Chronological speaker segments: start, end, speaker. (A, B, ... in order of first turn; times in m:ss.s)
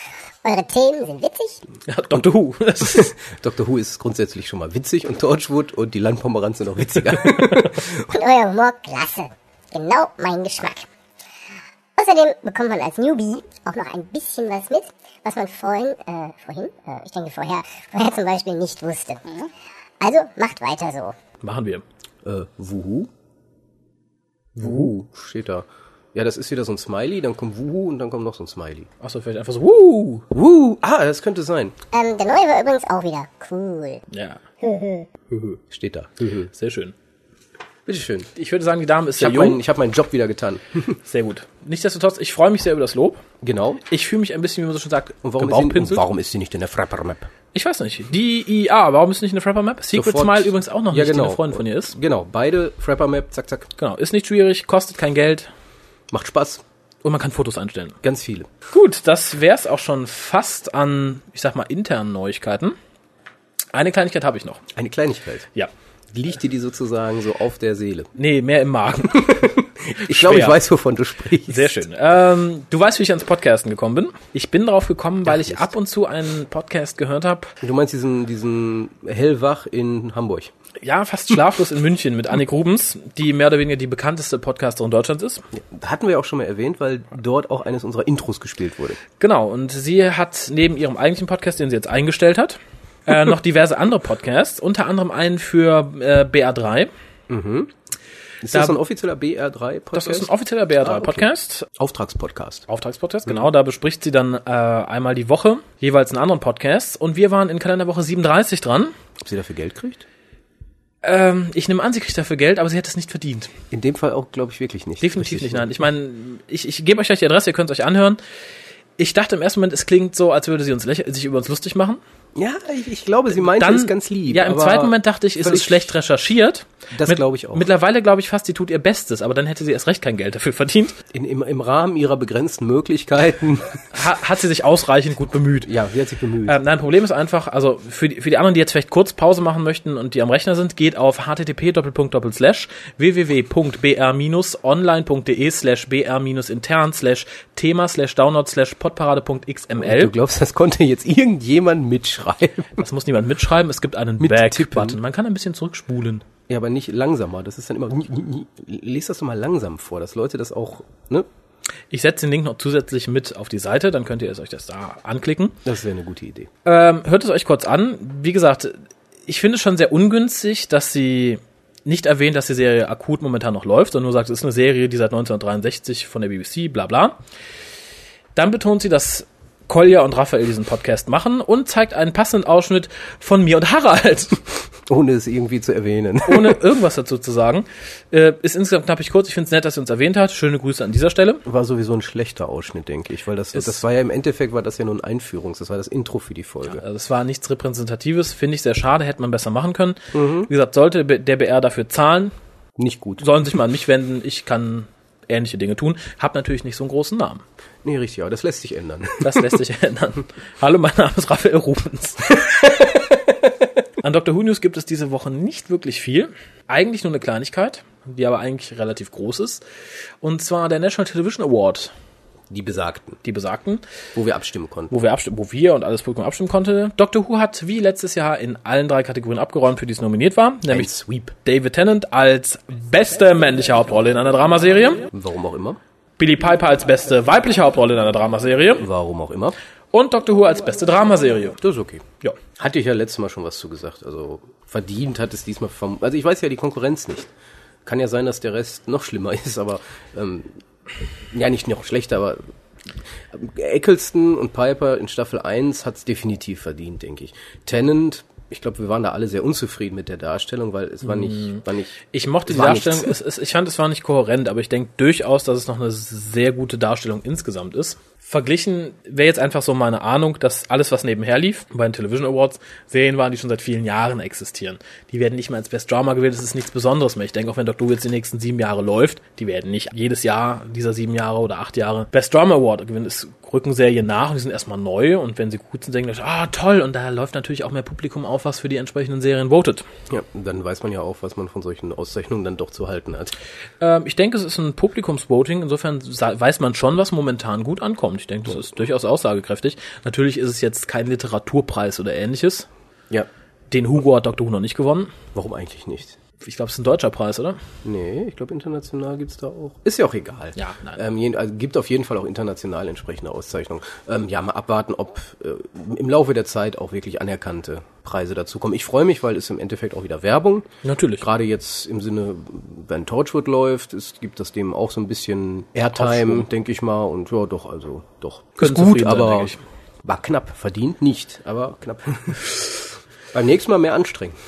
0:00.4-0:01.6 A
0:01.9-0:03.1 B
0:02.8-0:08.1 C
0:08.1-0:10.9 A
0:12.0-0:19.5 A
0:20.0-0:21.1 A
0:21.4-0:21.8 B
0:22.2-0:23.1 C
0:24.6-0:24.9 B
0:24.6-0:28.9 C
0:29.0-0:30.2 B
0:30.3-0:31.8 C
0:31.9-0:34.0 A
0:34.1-0:34.4 B
0:34.6-0:35.1 A
0:35.3-0:36.5 C
0:36.5-0:36.9 B
0:37.8-0:38.3 C
0:38.4-0:39.6 B
0:39.2-0:41.0 C
0:41.0-0:43.2 B
0:43.4-0:43.8 C
0:43.9-0:46.0 B
0:45.2-0:47.3 C
0:47.5-0:51.9 B
0:49.9-0:53.7 C
0:53.8-0:55.5 B
0:56.1-0:56.6 C
0:57.0-0:58.0 B
0:58.0-0:58.5 C
0:58.7-1:02.8 B
1:03.7-1:04.6 B
1:04.7-1:05.5 C
1:06.1-1:08.1 C
1:08.2-1:10.6 B
1:09.1-1:11.7 C
1:11.5-1:17.5 B
1:15.3-1:15.7 C
1:17.6-1:20.5 C
1:20.8-1:25.4 B
1:25.5-1:29.0 C
1:29.2-1:36.9 B
1:37.3-1:37.7 C
1:38.4-1:42.6 C
1:39.9-1:41.7 B
1:42.7-1:48.9 B
1:49.2-1:50.0 C
1:51.0-1:53.5 B
1:53.7-1:55.7 C
1:55.0-1:58.2 B
1:59.0-2:02.0 B
2:02.3-2:05.9 C
2:03.4-2:11.0 B
2:06.9-2:07.7 C
2:11.1-2:13.8 C
2:13.9-2:15.7 B
2:15.6-2:16.6 C
2:16.4-2:30.1 B
2:29.8-2:32.8 C
2:32.8-2:36.2 B
2:34.2-2:35.0 C
2:36.5-2:41.3 C
2:41.9-2:45.6 B
2:45.6-2:46.5 C
2:46.6-2:57.2 B
2:58.3-3:04.4 B
3:04.9-3:06.6 C
3:06.2-3:11.4 B
3:11.4-3:16.8 C
3:16.7-3:22.3 B
3:20.1-3:20.5 C
3:22.8-3:23.3 C
3:23.2-3:27.4 B
3:27.8-3:29.5 C
3:29.2-3:32.4 B
3:34.0-3:39.6 B
3:40.2-3:41.9 B
3:42.5-3:43.2 C
3:43.2-3:43.8 B
3:44.1-3:44.9 C
3:44.9-3:50.9 B
3:50.7-3:51.3 C
3:51.4-3:55.1 B
3:55.1-3:55.8 C
3:56.2-3:58.8 B
3:58.8-3:59.6 C
3:59.9-4:01.6 B
4:01.6-4:02.0 C
4:02.6-4:07.3 C
4:07.8-4:10.5 C
4:11.3-4:12.4 C
4:13.3-4:23.1 C
4:21.0-4:49.8 B
4:50.1-4:53.3 C
4:53.8-5:02.7 B
5:03.7-5:05.1 B
5:05.3-5:06.2 C
5:06.4-5:07.6 B
5:07.8-5:20.7 C
5:10.6-5:11.0 B
5:20.8-5:21.2 B
5:21.2-5:34.4 C
5:26.0-5:26.4 B
5:28.6-5:29.6 B